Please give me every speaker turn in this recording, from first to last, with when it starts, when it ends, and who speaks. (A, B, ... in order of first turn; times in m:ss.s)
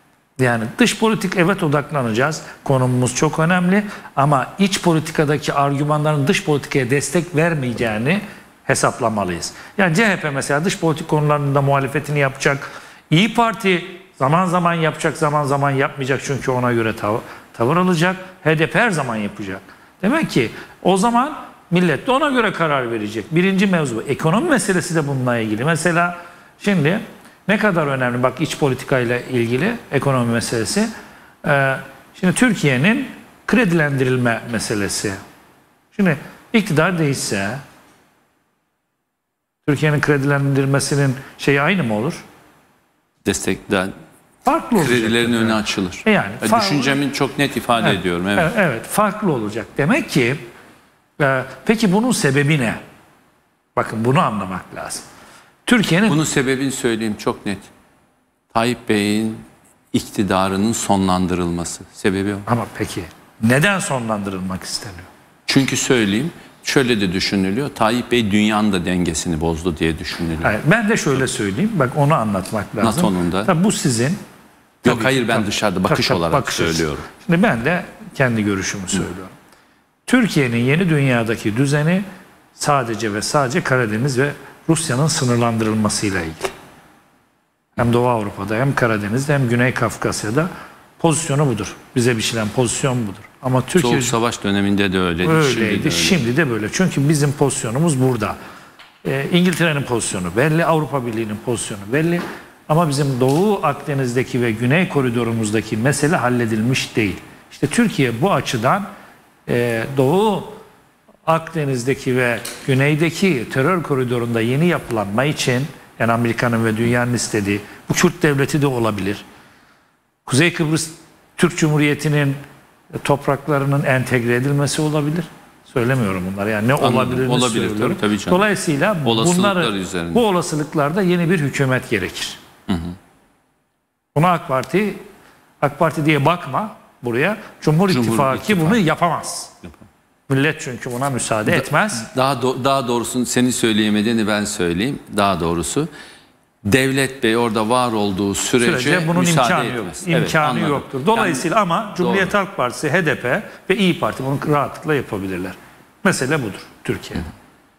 0:00.4-0:30.9 A
0:31.4-0:35.2 A
0:35.9-0:37.6 A
0:39.6-0:42.2 A
0:43.2-0:43.9 B
0:44.4-0:47.0 A
0:44.8-0:48.5 B
0:47.8-0:50.4 A
0:51.2-0:52.8 A
0:53.8-0:55.0 A
0:55.6-0:56.2 A
0:56.1-0:57.7 B
0:58.5-1:02.5 B
1:02.5-1:05.1 A
1:05.5-1:10.5 B
1:10.4-1:14.2 A
1:12.8-1:13.5 B
1:14.8-1:19.3 A
1:14.8-1:17.0 B
1:20.1-1:22.0 A
1:22.6-1:26.5 A
1:27.8-1:34.2 A
1:33.8-1:36.2 B
1:35.2-1:38.4 A
1:39.0-1:48.9 A
1:49.5-1:50.6 A
1:51.2-1:59.2 A
2:00.3-2:02.4 A
2:03.0-2:12.4 A
2:06.8-2:08.5 B
2:09.0-2:10.2 B
2:12.7-2:13.0 B
2:14.1-2:15.0 A
2:15.6-2:19.5 A
2:17.9-2:18.8 B
2:20.3-2:22.1 A
2:21.5-2:25.9 B
2:26.6-2:32.3 B
2:28.6-2:37.3 A